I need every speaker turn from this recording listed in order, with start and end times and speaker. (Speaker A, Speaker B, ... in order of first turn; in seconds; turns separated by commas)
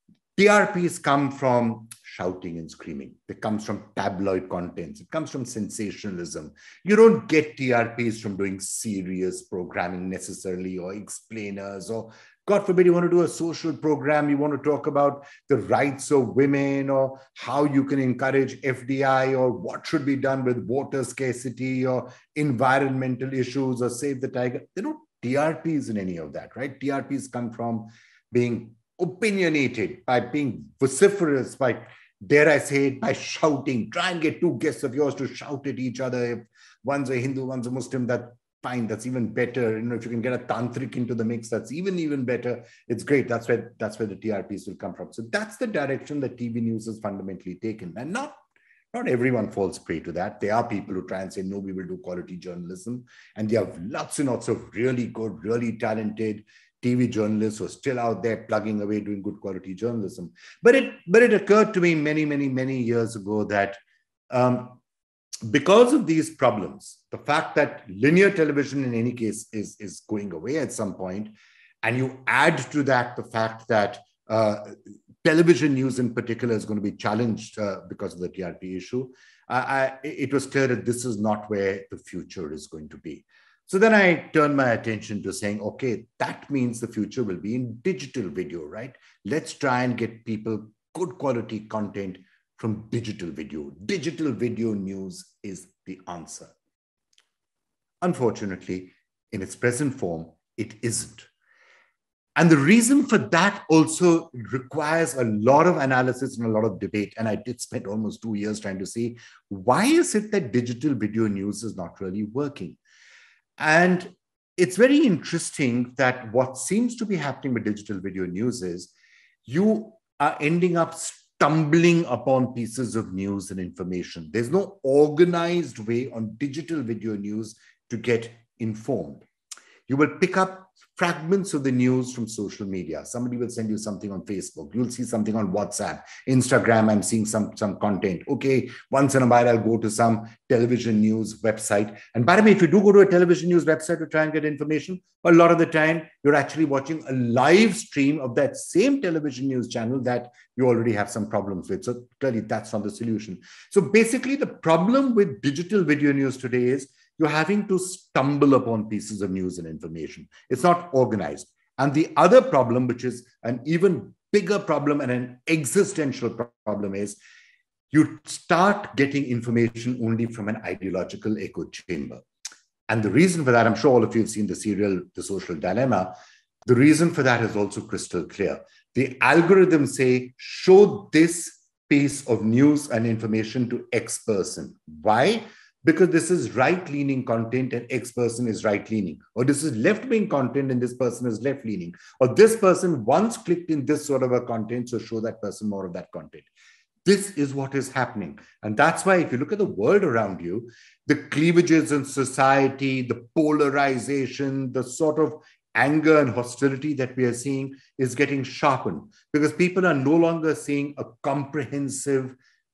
Speaker A: 0.4-48.4, Speaker A: 48.9-63.8, Speaker A: 64.3-64.8, Speaker A: 65.5-96.5, Speaker A: 98.0-101.3, Speaker A: 102.3-112.8, Speaker A: 113.6-118.9, Speaker A: 119.4-129.2, Speaker A: 129.9-167.2, Speaker A: 167.9-172.2, Speaker A: 172.9-176.1, Speaker A: 176.7-196.5, Speaker A: 197.0-212.4